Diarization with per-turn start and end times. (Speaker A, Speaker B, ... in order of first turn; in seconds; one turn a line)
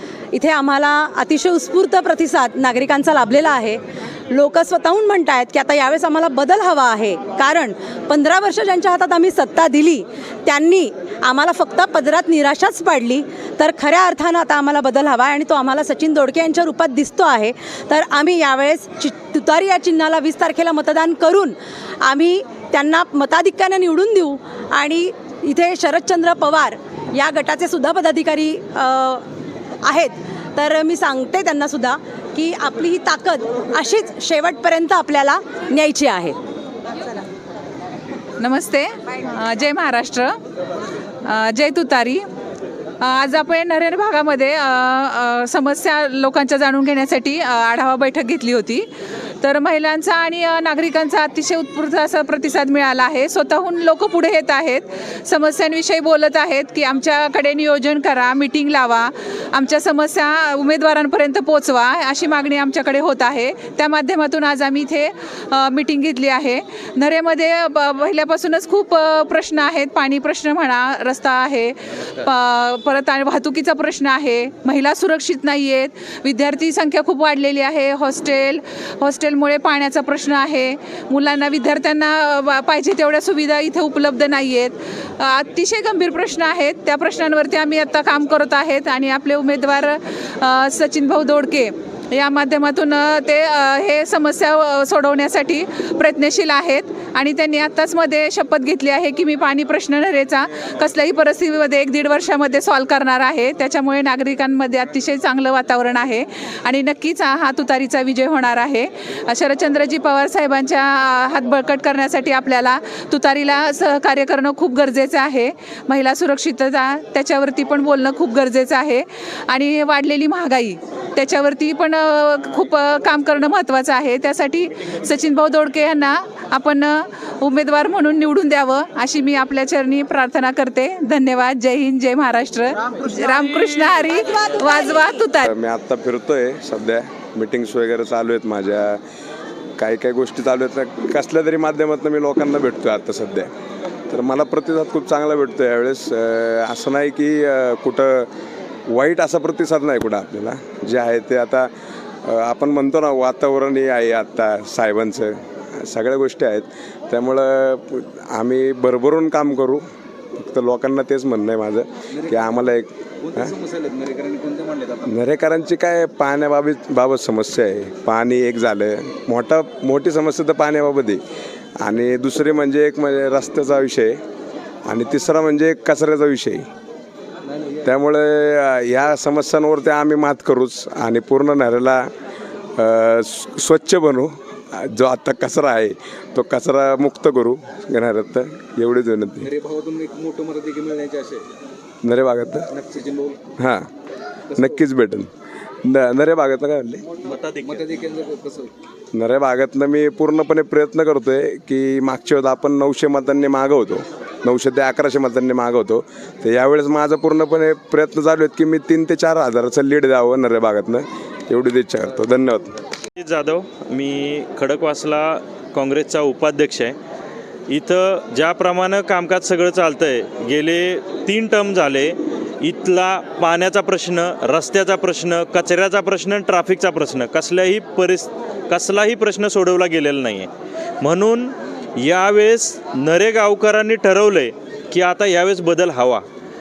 Speaker A: 0.3-29.2
Speaker A: 29.8-36.4
Speaker B: 38.4-40.4
Speaker B: 41.2-42.2
Speaker B: 43.0-48.9
Speaker B: 49.4-135.5
Speaker C: 135.4-139.0
Speaker C: 139.8-143.5
Speaker C: 144.1-148.3
Speaker C: 148.9-151.7
Speaker C: 152.2-159.8
Speaker C: 160.4-163.5
Speaker D: 163.3-165.1
Speaker C: 165.1-171.2
Speaker C: 171.8-174.2
Speaker C: 174.9-176.7
Speaker C: 177.8-182.1
Speaker C: 182.8-189.5
Speaker D: 189.4-191.5
Speaker C: 192.0-192.7
Speaker D: 192.7-193.4
Speaker C: 193.6-193.9
Speaker C: 194.6-195.3
Speaker C: 195.8-197.1
Speaker E: 197.3-197.8
Speaker D: 197.4-198.7
Speaker C: 199.1-212.8
Speaker E: 213.2-216.9
Speaker E: 217.7-230.5
Speaker E: 231.0-236.2